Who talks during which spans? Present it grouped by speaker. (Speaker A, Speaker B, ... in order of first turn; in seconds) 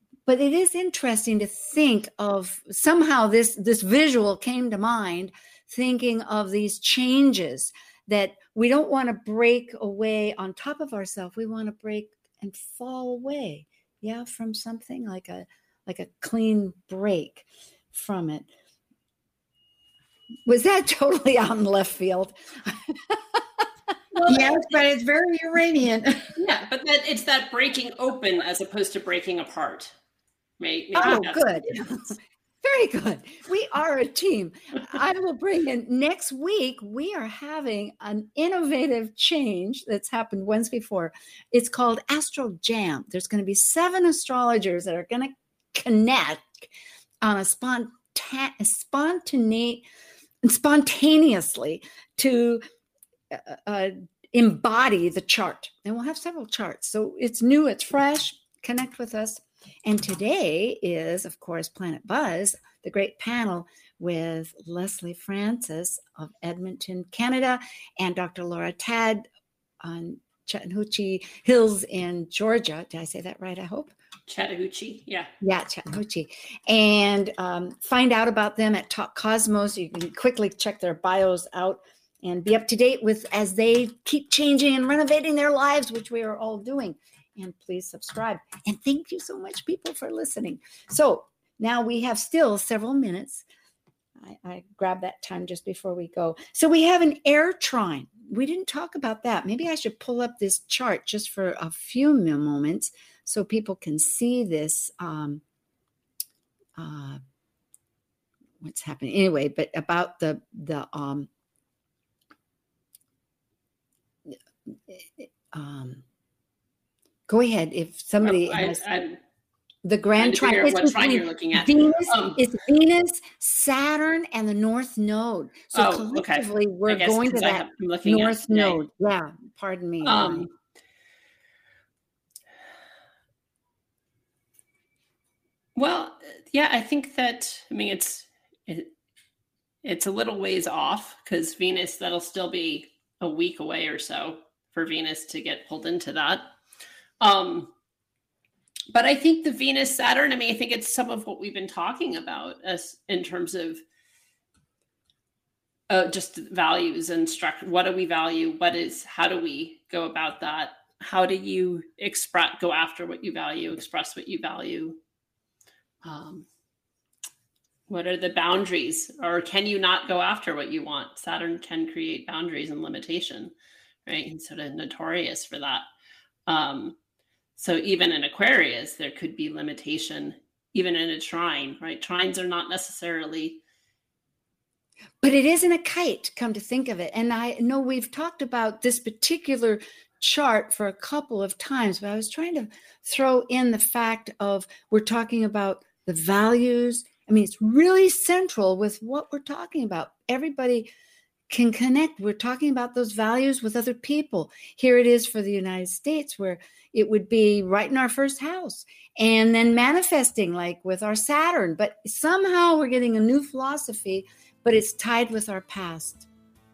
Speaker A: 0.2-18.5, 20.4-23.6, 30.9-46.7, 47.2-49.9, 50.4-52.6, 53.3-69.3, 69.8-73.9, 75.4-93.4, 94.2-105.4, 106.8-107.2, 108.6-111.3, 114.9-116.0, 117.3-118.8, 119.8-130.5, 185.2-200.9, 201.5-216.3
Speaker B: 24.1-24.5, 26.4-29.9, 30.6-31.8, 74.3-75.3, 118.2-119.2, 120.2-122.4, 125.7-128.8, 130.0-130.5, 135.8-138.9, 139.8-146.5, 147.2-147.7, 148.9-153.8, 155.9-165.0, 166.0-166.4, 167.9-173.5, 174.1-175.8, 176.5-176.9, 177.6-183.6
Speaker C: 24.2-26.3